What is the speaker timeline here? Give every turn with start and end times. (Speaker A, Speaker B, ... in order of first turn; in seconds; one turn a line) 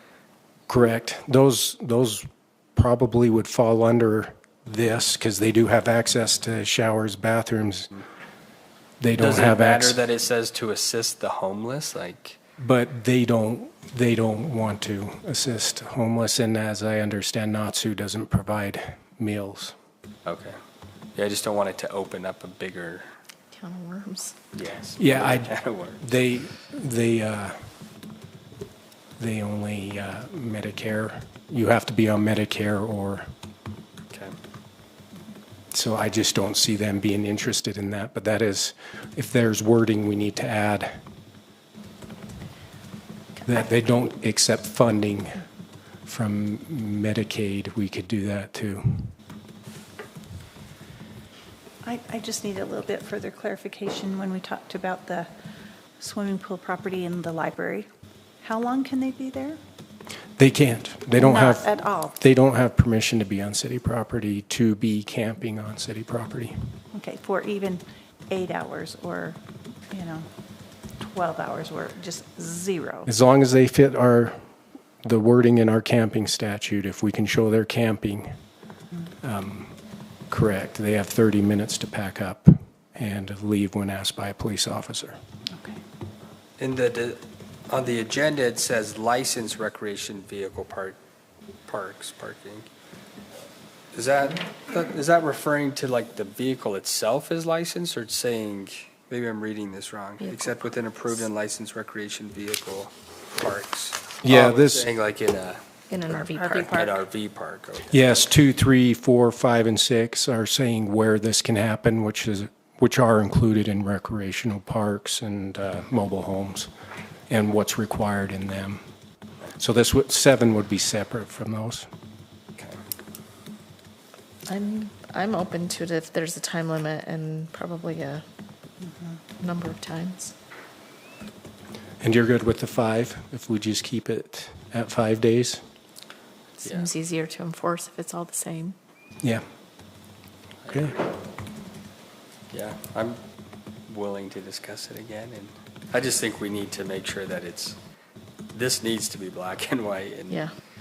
Speaker A: 0.7-7.9
Speaker A: 9.0-10.0
Speaker B: 9.2-12.4
Speaker A: 12.6-19.8
Speaker B: 20.2-20.6
Speaker B: 21.1-23.1
Speaker C: 23.5-24.4
Speaker B: 24.5-26.1
Speaker A: 25.0-27.6
Speaker A: 29.2-33.3
Speaker A: 35.7-40.9
Speaker A: 43.5-45.5
Speaker A: 46.1-49.1
Speaker D: 51.8-55.3
Speaker D: 56.0-57.9
Speaker D: 58.4-59.6
Speaker A: 60.4-66.5
Speaker D: 61.2-62.2
Speaker D: 66.9-69.4
Speaker D: 69.9-70.3
Speaker D: 71.0-73.1
Speaker A: 73.1-74.4
Speaker A: 75.0-78.3
Speaker A: 79.2-79.8
Speaker A: 80.3-85.2
Speaker B: 86.6-91.0
Speaker B: 91.7-92.7
Speaker B: 93.9-105.6
Speaker C: 100.2-100.6
Speaker A: 104.2-104.9
Speaker C: 105.9-106.8
Speaker D: 106.1-107.0
Speaker B: 106.7-108.2
Speaker A: 107.9-116.7
Speaker A: 117.3-118.8
Speaker A: 119.6-121.9
Speaker C: 124.5-128.2
Speaker C: 129.4-130.3
Speaker A: 132.0-135.6
Speaker C: 136.6-138.8
Speaker B: 136.6-136.9
Speaker B: 140.6-141.0
Speaker B: 142.5-143.2
Speaker B: 143.9-147.8
Speaker B: 148.5-150.5